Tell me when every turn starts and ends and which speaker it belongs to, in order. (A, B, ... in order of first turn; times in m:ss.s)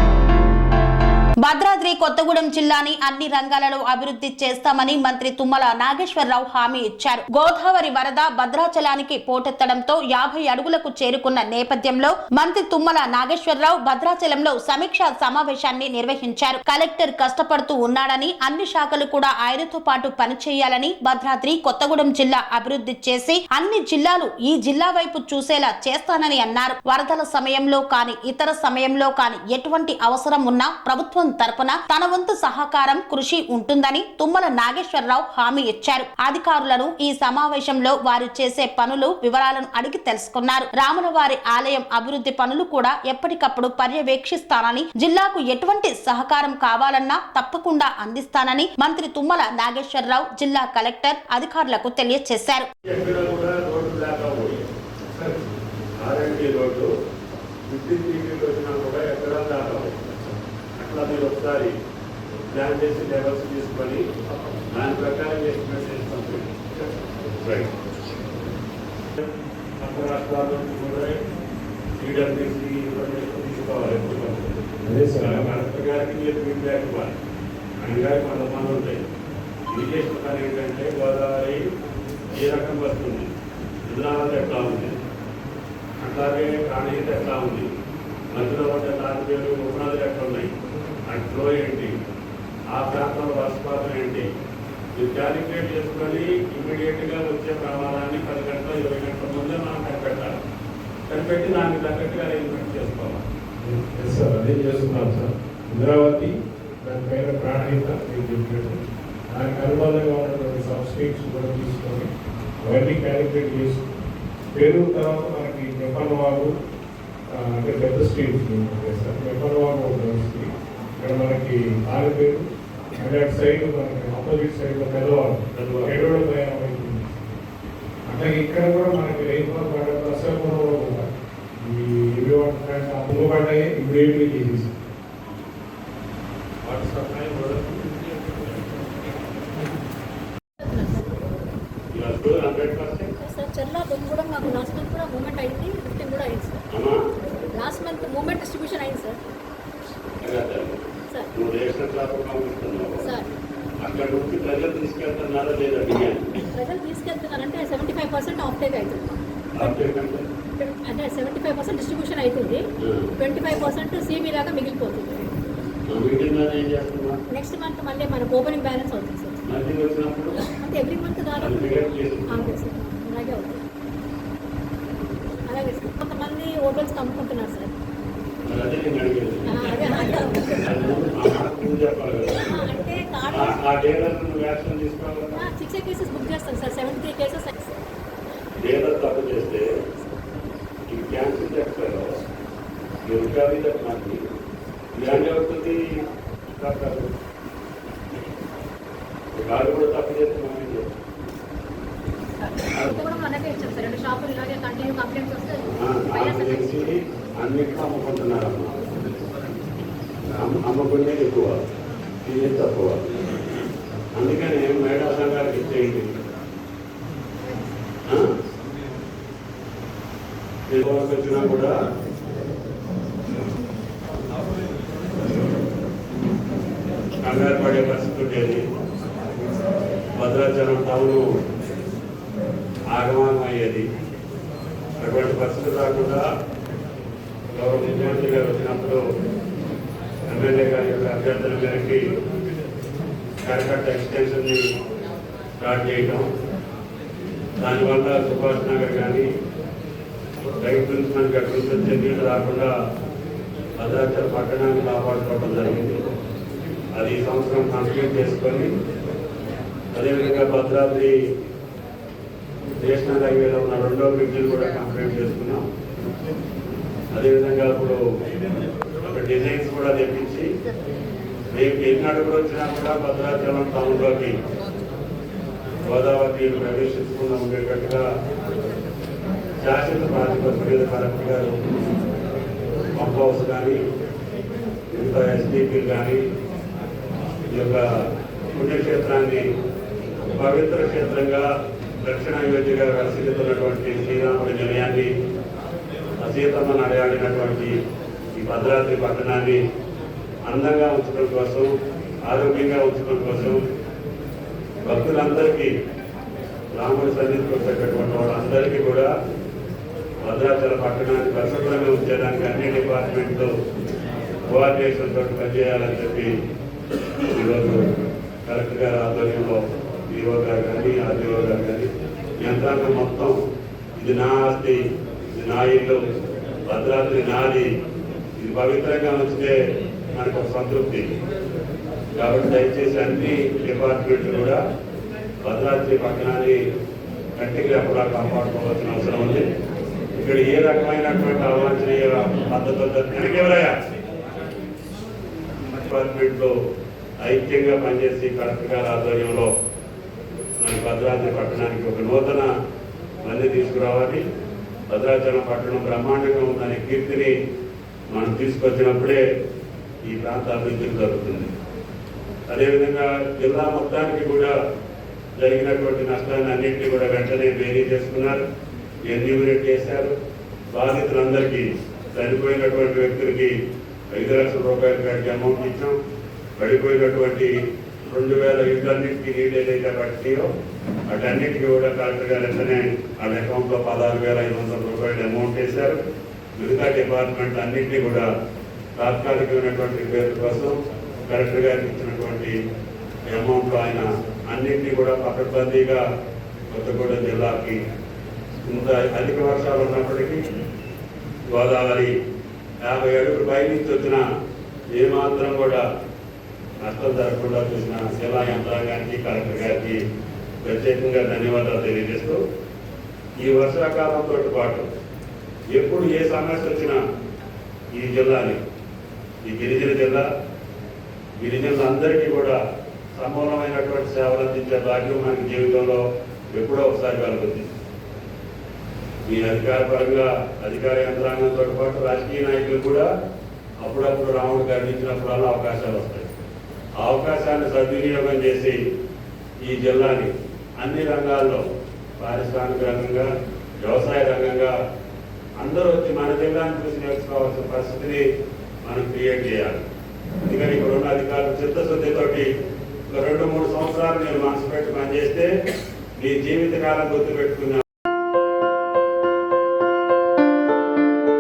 0:01.4-0:52.7 A
0:52.8-0:54.6 B
0:56.0-0:56.9 B
0:57.7-1:00.1 B
1:00.8-1:01.7 B
1:02.5-1:04.0 B
1:04.7-1:06.6 B
1:07.4-1:07.7 B
1:09.8-1:11.2 B
1:12.0-1:14.6 B
1:14.8-1:15.6 C
1:15.2-1:17.1 B
1:17.8-1:19.0 B
1:19.7-1:21.6 B
1:22.3-1:23.3 B
1:23.8-1:25.0 B
1:26.0-1:27.7 B
1:28.3-1:30.5 B
1:31.1-1:31.9 B
1:32.7-1:34.2 B
1:34.9-1:40.3 B
1:41.1-1:43.2 B
1:43.6-1:52.1 C
1:52.6-1:53.8 C
1:54.5-1:56.5 C
1:57.3-2:02.4 C
2:03.0-2:07.3 C
2:05.5-2:06.0 B
2:08.0-2:11.1 C
2:11.6-2:14.7 C
2:16.6-2:18.9 B
2:20.6-2:21.2 D
2:21.9-2:23.1 B
2:23.2-2:26.6 D
2:27.5-2:29.2 D
2:30.2-2:33.1 B
2:33.0-2:33.3 D
2:33.8-2:36.3 B
2:36.5-2:39.8 D
2:39.5-2:40.2 B
2:40.6-2:42.6 D
2:43.2-2:45.3 D
2:45.9-2:47.1 B
2:47.3-2:49.4 D
2:49.5-2:50.4 B
2:50.4-2:53.6 D
2:51.4-2:52.5 B
2:55.5-2:57.7 D
2:58.4-3:00.0 B
2:59.5-3:00.9 D
3:00.6-3:02.5 B
3:02.4-3:03.6 D
3:03.3-3:05.5 B
3:05.3-3:07.7 D
3:08.6-3:09.6 B
3:10.9-3:12.1 B
3:13.0-3:14.2 B
3:14.9-3:15.9 B
3:16.5-3:17.1 B
3:19.3-3:21.0 B
3:22.4-3:26.9 D
3:25.6-3:28.8 B
3:30.4-3:31.6 B
3:32.2-3:33.0 B
3:34.2-3:36.1 B
3:40.7-3:41.7 B
3:47.2-3:48.6 B
3:50.2-3:51.2 B
3:52.9-3:53.8 B
3:55.0-3:56.2 B
3:57.5-3:59.0 B
4:00.3-4:02.1 B
4:03.4-4:04.6 B
4:05.6-4:06.3 B
4:07.6-4:09.3 B
4:10.6-4:12.7 B
4:13.8-4:16.0 B
4:16.9-4:18.7 B
4:19.9-4:21.1 B
4:22.8-4:25.6 B
4:27.1-4:28.0 B
4:29.0-4:30.4 B
4:31.5-4:34.3 B
4:35.8-4:38.0 B
4:39.6-4:41.5 B
4:42.9-4:43.8 B
4:44.9-4:46.2 B
4:47.5-4:47.8 B
4:48.5-4:49.4 B
4:50.2-4:51.5 B
4:52.0-4:55.1 B
4:56.2-4:57.7 B
4:58.4-4:59.6 B
5:00.5-5:01.7 B
5:02.2-5:03.6 B
5:04.8-5:05.7 B
5:06.7-5:09.1 B
5:10.2-5:13.5 B
5:14.5-5:16.3 B
5:17.3-5:17.8 B
5:18.4-5:21.9 B
5:22.4-5:23.4 B
5:24.0-5:24.8 B
5:25.3-5:26.0 B
5:26.7-5:27.7 B
5:28.4-5:29.5 B
5:30.1-5:31.1 B
5:32.2-5:34.6 B
5:35.4-5:36.6 B
5:37.4-5:39.4 B
5:40.2-5:43.8 B
5:45.7-5:46.5 B
5:47.2-5:49.5 B
5:50.6-5:52.5 B
5:53.2-5:54.2 B
5:54.9-5:57.3 B
5:58.1-5:59.2 B
6:00.0-6:01.5 B
6:02.5-6:04.5 B
6:05.4-6:08.4 B
6:09.1-6:10.1 B
6:10.7-6:13.5 B
6:14.1-6:15.9 B
6:16.6-6:17.5 B
6:18.1-6:20.5 B
6:21.1-6:26.0 B
6:26.6-6:28.3 B
6:29.0-6:30.7 B
6:31.3-6:32.6 B
6:33.3-6:36.0 B
6:36.7-6:37.8 B
6:38.6-6:40.4 B
6:41.5-6:42.1 B
6:42.8-6:44.2 B
6:44.9-6:45.8 B
6:46.8-6:50.0 B
6:50.6-6:52.4 B
6:53.4-6:54.9 B
6:55.7-6:57.0 B
6:57.9-6:58.6 B
6:59.4-7:00.2 B
7:01.4-7:02.6 B
7:03.2-7:06.0 B
7:06.5-7:07.7 B
7:09.2-7:13.0 B
7:13.8-7:16.3 B
7:17.0-7:18.8 B
7:19.6-7:21.6 B
7:22.2-7:23.3 B
7:23.8-7:24.7 B
7:25.6-7:28.2 B
7:28.8-7:29.8 B
7:30.5-7:32.5 B
7:33.1-7:35.5 B
7:36.2-7:37.8 B